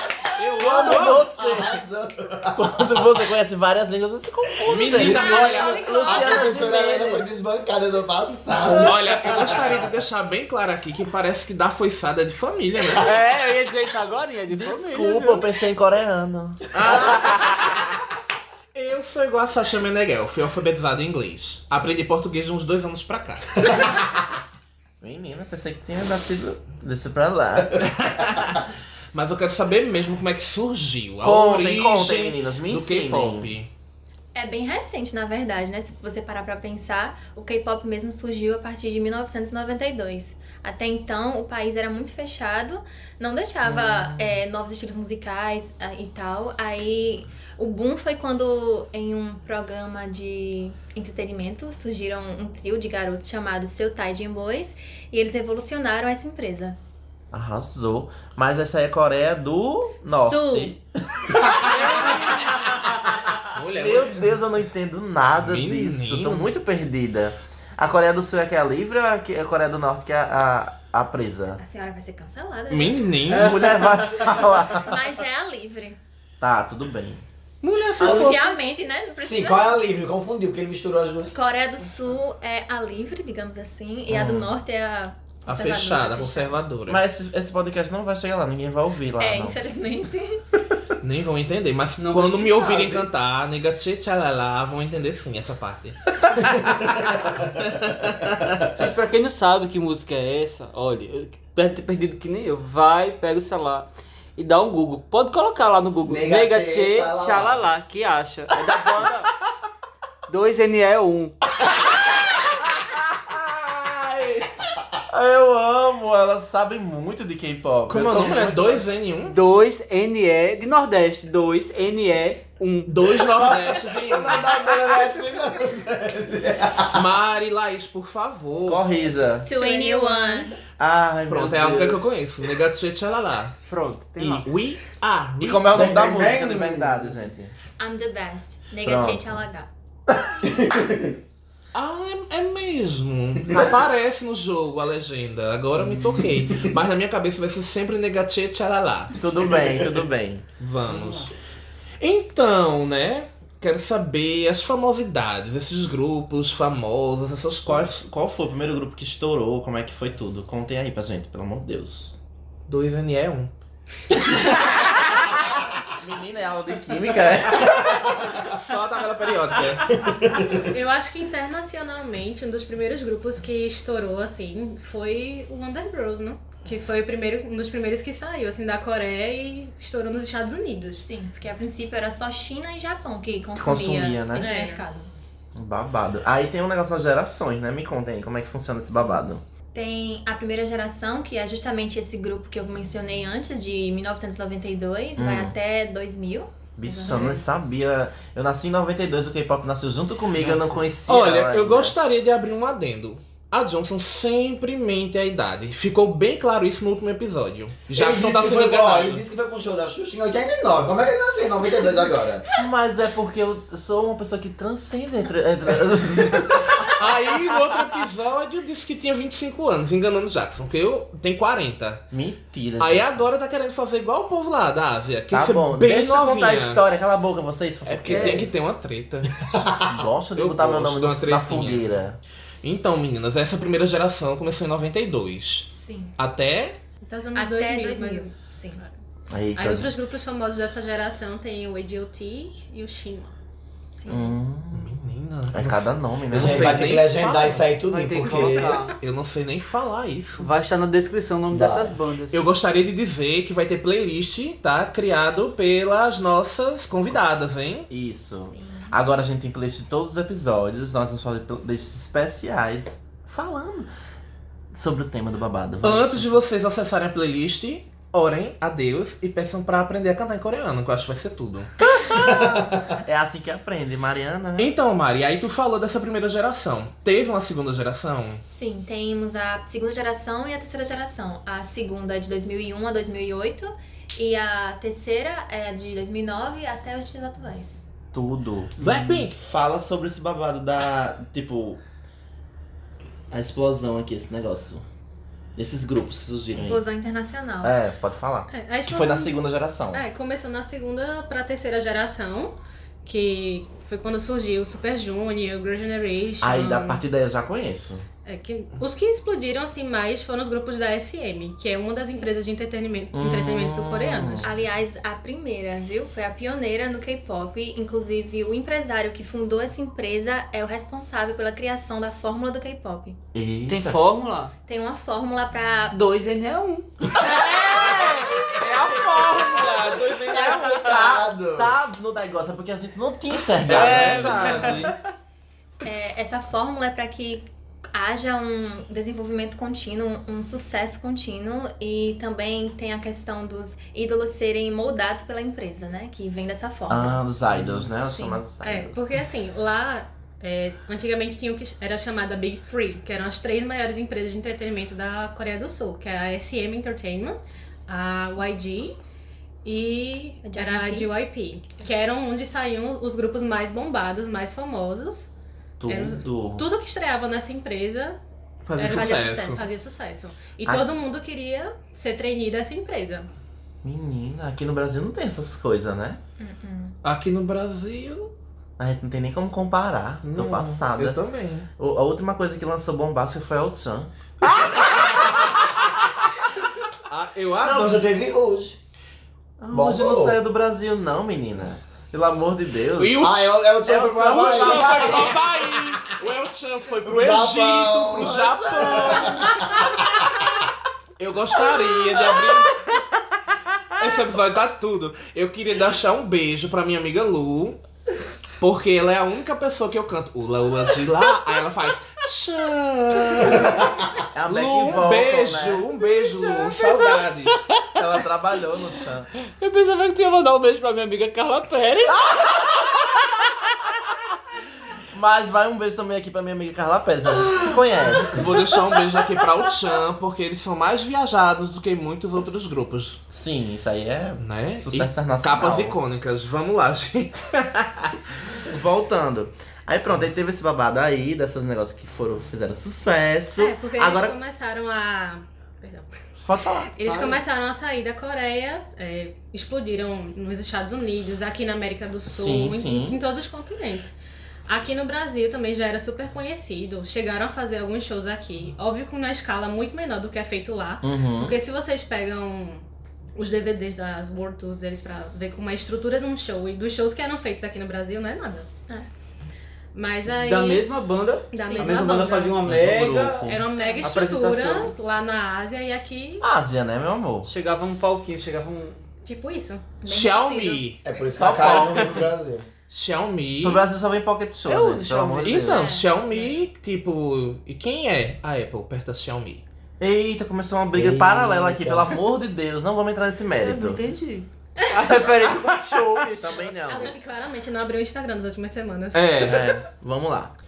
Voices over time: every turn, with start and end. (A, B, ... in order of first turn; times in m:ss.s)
0:00.4-0:01.2 A
0:00.5-0:02.8 B
0:00.6-0:01.8 C
0:02.5-0:07.4 C
0:04.7-0:05.9 A
0:04.9-0:06.5 D
0:05.0-0:09.9 B
0:08.7-0:13.1 A
0:12.9-0:15.4 E
0:14.5-0:16.6 C
0:16.7-0:17.9 A
0:17.1-0:17.7 E
0:18.7-0:24.0 A
0:25.0-0:27.9 C
0:27.8-0:33.7 A
0:31.2-0:33.5 C
0:34.4-0:56.8 D
0:43.6-0:44.4 C
0:57.3-1:02.2 C
1:00.1-1:00.8 D
1:01.4-1:02.5 A
1:01.7-1:02.9 E
1:03.5-1:04.3 A
1:03.7-1:11.6 C
1:05.2-1:06.6 A
1:11.6-1:13.4 D
1:12.7-1:13.7 A
1:13.3-1:14.2 E
1:13.3-1:15.0 C
1:14.2-1:16.0 D
1:16.4-1:17.2 C
1:17.6-1:18.6 A
1:18.0-1:19.9 D
1:18.0-1:18.4 B
1:19.2-1:21.3 B
1:21.3-1:26.6 D
1:24.1-1:24.5 C
1:25.5-1:27.0 A
1:26.9-1:29.6 C
1:29.2-1:30.4 D
1:31.0-1:37.2 A
1:32.0-1:33.1 E
1:37.9-1:38.2 A
1:38.7-1:49.3 E
1:46.0-1:47.6 B
1:50.3-1:51.4 E
1:52.0-1:54.5 A
1:55.1-1:58.8 C
1:57.9-1:59.4 A
1:59.2-2:03.1 E
2:02.9-2:05.0 A
2:03.3-2:07.0 B
2:06.9-2:08.8 A
2:08.6-2:09.5 C
2:09.4-2:10.6 D
2:09.5-2:10.5 F
2:10.8-2:12.0 C
2:11.3-2:13.6 A
2:13.7-2:14.5 E
2:14.2-2:15.8 A
2:15.4-2:17.5 C
2:15.7-2:17.1 B
2:17.8-2:19.7 D
2:18.8-2:19.5 C
2:20.4-2:21.1 B
2:21.7-2:29.1 A
2:25.9-2:26.4 E
2:29.2-2:30.5 C
2:30.6-2:31.3 A
2:30.9-2:31.3 E
2:32.0-2:38.0 A
2:37.7-2:42.2 C
2:42.7-2:43.5 A
2:45.9-2:47.8 C
2:47.6-2:50.0 A
2:50.0-2:50.4 B
2:50.6-3:01.1 F
3:01.0-3:05.1 D
3:03.5-3:04.6 C
3:04.4-3:04.8 F
3:05.6-3:09.4 C
3:09.7-3:17.5 D
3:15.2-3:15.5 C
3:16.8-3:22.0 C
3:20.4-3:29.2 A
3:27.9-3:32.5 B
3:32.5-3:36.9 C
3:37.0-3:42.1 A
3:42.1-3:43.2 C
3:42.8-3:46.8 A
3:45.3-3:48.5 C
3:47.9-3:49.4 A
3:48.1-3:48.5 E
3:49.5-3:49.8 B
3:49.9-3:52.2 C
3:50.4-3:51.9 A
3:52.6-3:56.8 A
3:55.7-3:56.1 D
3:57.0-3:58.9 F
3:57.4-3:58.8 D
3:59.3-3:59.9 C
3:59.6-4:03.4 F
4:03.9-4:04.4 D
4:04.1-4:04.9 C
4:04.7-4:07.7 A
4:05.5-4:07.0 C
4:06.3-4:08.8 B
4:07.9-4:09.0 E
4:08.3-4:10.5 A
4:10.4-4:12.4 E
4:11.5-4:12.0 B
4:12.3-4:17.9 A
4:17.9-4:23.9 C
4:18.4-4:19.0 D
4:24.7-4:26.4 C
4:25.8-4:31.7 A
4:31.8-4:34.7 C
4:32.2-4:32.8 B
4:34.6-4:38.4 A
4:38.5-4:47.8 D
4:48.1-4:51.8 C
4:48.8-4:49.3 A
4:48.8-4:49.2 E
4:53.3-4:54.8 C
4:55.6-4:56.8 C
4:56.6-4:57.8 D
4:57.6-5:00.0 C
4:58.5-4:59.4 F
4:59.9-5:07.0 F
5:06.4-5:08.0 C
5:08.2-5:14.5 F
5:12.0-5:12.3 D
5:13.1-5:14.5 C
5:14.4-5:23.2 D
5:23.3-5:24.0 C
5:23.7-5:24.5 E
5:24.6-5:26.0 D
5:25.9-5:28.6 E
5:27.2-5:31.2 A
5:30.1-5:31.7 B
5:30.6-5:31.1 E
5:31.5-5:35.0 C
5:33.5-5:34.9 A
5:33.6-5:34.9 E
5:35.8-5:47.2 D
5:46.9-5:49.0 C
5:47.9-5:48.4 D
5:48.6-5:59.0 F
5:59.6-6:05.3 F
6:00.4-6:01.1 D
6:05.8-6:06.7 C
6:05.9-6:08.2 F
6:08.6-6:09.6 A
6:08.8-6:13.3 F
6:08.8-6:09.6 D
6:13.8-6:16.2 C
6:16.4-6:17.0 D
6:17.0-6:18.3 A
6:18.8-6:21.2 C
6:20.2-6:21.7 A
6:21.8-6:24.1 C
6:24.4-6:26.3 A
6:24.8-6:25.4 C
6:27.1-6:28.1 A
6:27.6-6:28.8 B
6:29.6-6:33.3 C
6:29.7-6:30.4 B
6:33.0-6:40.3 A
6:33.2-6:35.4 B
6:33.9-6:35.4 C
6:37.0-6:39.8 B
6:41.2-6:43.0 A
6:44.0-6:47.8 A
6:48.6-6:57.6 A
6:54.3-6:55.8 C
6:56.2-6:57.8 E
6:58.0-6:59.3 C
6:59.6-7:02.6 E
7:05.1-7:08.5 C
7:08.2-7:13.2 A
7:13.3-7:16.0 C
7:14.4-7:18.2 A
7:18.6-7:24.4 C
7:23.6-7:26.1 F
7:26.4-7:27.3 C
7:27.0-7:34.1 F
7:32.3-7:33.2 C
7:34.7-7:42.8 F
7:41.0-7:41.6 C
7:43.4-7:48.7 F
7:50.0-7:50.9 F
7:50.3-7:53.5 E
7:51.5-7:52.6 F
7:51.6-7:52.3 D
7:52.6-7:53.6 C
7:53.4-7:56.5 F
7:53.8-7:54.2 D
7:54.0-7:54.9 E
7:56.4-7:57.5 C
7:57.5-7:59.0 E
7:59.2-7:59.8 F
8:00.0-8:00.9 D
8:00.0-8:02.0 A
8:01.0-8:02.6 B
8:01.4-8:02.2 C
8:02.9-8:03.8 A
8:03.6-8:05.9 C
8:04.7-8:05.7 E
8:05.4-8:09.6 A
8:05.8-8:06.0 D
8:05.8-8:06.5 F
8:10.0-8:14.0 C
8:10.9-8:12.2 B
8:13.6-8:16.7 E
8:16.4-8:17.2 C
8:16.9-8:19.4 F
8:19.1-8:19.7 A
8:19.4-8:20.5 C